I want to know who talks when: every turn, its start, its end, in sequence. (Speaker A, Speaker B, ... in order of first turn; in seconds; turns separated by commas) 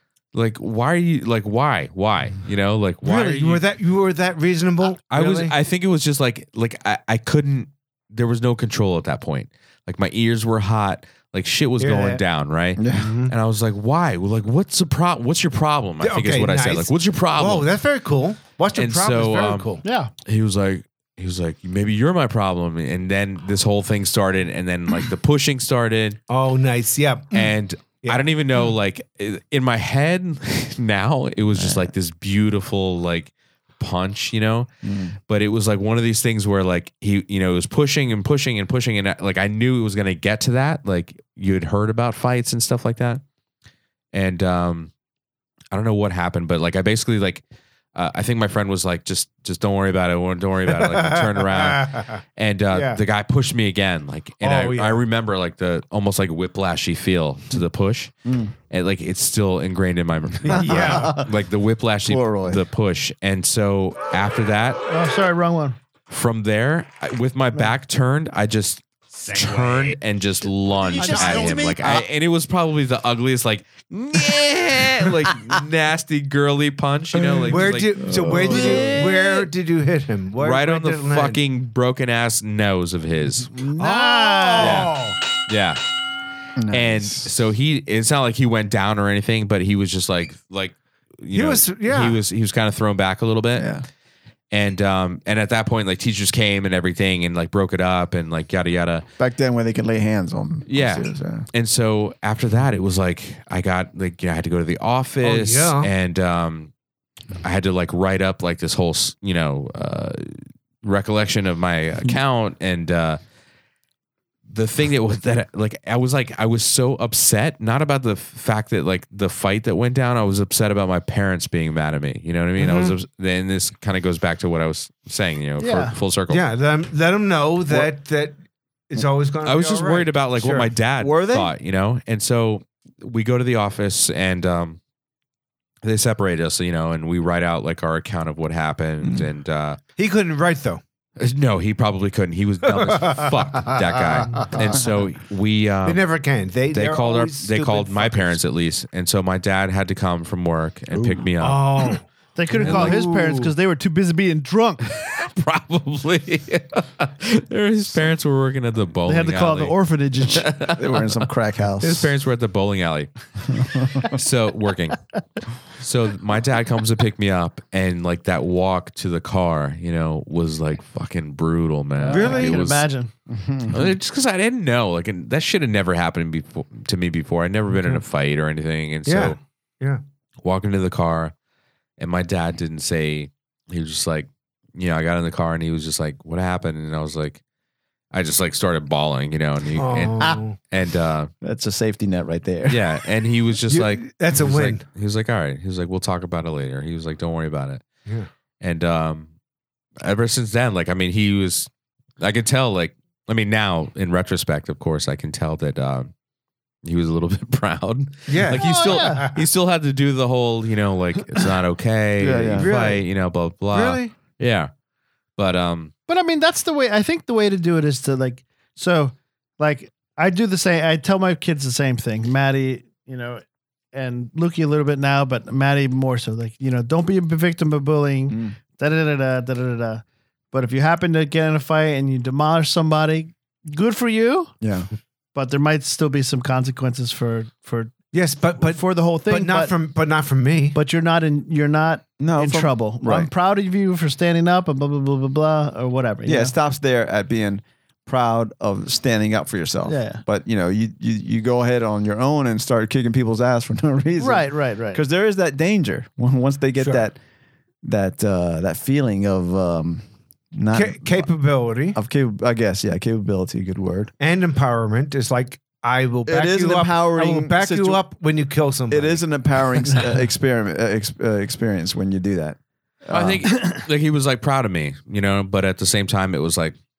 Speaker A: 0.3-3.6, Speaker B: 3.0-5.5, Speaker A: 5.1-17.7, Speaker B: 11.8-12.2, Speaker C: 12.8-13.1, Speaker B: 12.9-13.3, Speaker B: 16.0-19.8, Speaker A: 18.7-19.7, Speaker D: 19.8-20.1, Speaker A: 20.2-26.2, Speaker B: 26.3-28.3, Speaker A: 27.3-34.7, Speaker C: 31.6-31.9, Speaker C: 34.8-35.1, Speaker A: 35.3-43.2, Speaker A: 44.1-44.9, Speaker A: 45.7-58.1, Speaker B: 50.7-53.0, Speaker B: 54.4-55.0, Speaker C: 58.2-58.5, Speaker A: 58.7-64.8, Speaker C: 60.4-61.3, Speaker B: 60.5-61.1, Speaker C: 62.0-62.6, Speaker D: 64.9-65.8, Speaker A: 66.1-79.5, Speaker B: 69.2-69.9, Speaker C: 70.9-72.1, Speaker D: 71.0-71.6, Speaker B: 77.1-81.4, Speaker C: 78.1-79.0, Speaker A: 80.4-83.5, Speaker D: 83.5-84.9, Speaker B: 83.8-85.2, Speaker A: 84.6-84.9, Speaker A: 85.5-85.8, Speaker C: 86.6-87.3, Speaker A: 86.7-93.7, Speaker B: 91.3-92.2, Speaker C: 93.5-93.8, Speaker A: 94.5-99.0, Speaker C: 99.2-101.5, Speaker A: 100.7-106.7, Speaker B: 105.2-105.9, Speaker A: 107.4-113.2, Speaker A: 114.5-126.4, Speaker B: 122.6-123.0, Speaker D: 125.6-125.9, Speaker B: 126.3-128.3, Speaker B: 128.9-130.7, Speaker A: 129.4-134.8, Speaker C: 131.0-131.5, Speaker A: 135.8-139.8, Speaker B: 140.0-140.8, Speaker A: 141.2-146.0, Speaker B: 142.6-144.6, Speaker B: 145.8-148.4, Speaker A: 146.7-151.9, Speaker C: 150.9-151.2, Speaker B: 151.4-153.5, Speaker D: 152.3-154.8, Speaker A: 152.6-153.0, Speaker A: 154.8-159.7, Speaker D: 159.0-160.5, Speaker A: 160.3-161.2, Speaker C: 160.5-162.1, Speaker A: 161.8-165.0, Speaker C: 163.5-164.1, Speaker A: 165.7-172.8, Speaker D: 172.0-173.1, Speaker B: 172.1-172.6, Speaker C: 173.3-173.9, Speaker A: 173.7-179.4, Speaker B: 177.7-178.0, Speaker B: 179.1-180.0, Speaker A: 180.4-181.3, Speaker A: 182.0-187.4, Speaker A: 188.1-191.3, Speaker B: 189.7-190.6, Speaker C: 191.4-192.9, Speaker A: 192.7-197.8, Speaker B: 193.7-194.8, Speaker A: 198.6-199.3, Speaker A: 200.0-201.7, Speaker A: 202.2-206.1, Speaker A: 206.8-214.7, Speaker B: 208.3-209.5, Speaker D: 208.5-209.3, Speaker C: 212.2-212.7, Speaker B: 212.6-213.0, Speaker B: 213.7-214.1, Speaker A: 215.4-215.9, Speaker D: 216.1-234.5, Speaker C: 228.3-228.6, Speaker C: 234.6-234.9, Speaker D: 235.3-237.9, Speaker B: 238.1-240.8, Speaker D: 238.6-239.7, Speaker D: 240.7-246.5, Speaker C: 242.2-243.3, Speaker C: 246.2-257.2, Speaker D: 249.9-250.2, Speaker D: 254.2-255.0, Speaker B: 256.8-257.1, Speaker C: 257.8-261.3, Speaker B: 260.7-262.0, Speaker C: 261.9-264.1, Speaker B: 264.2-269.2, Speaker C: 266.2-268.0, Speaker C: 268.9-273.4, Speaker A: 273.1-276.8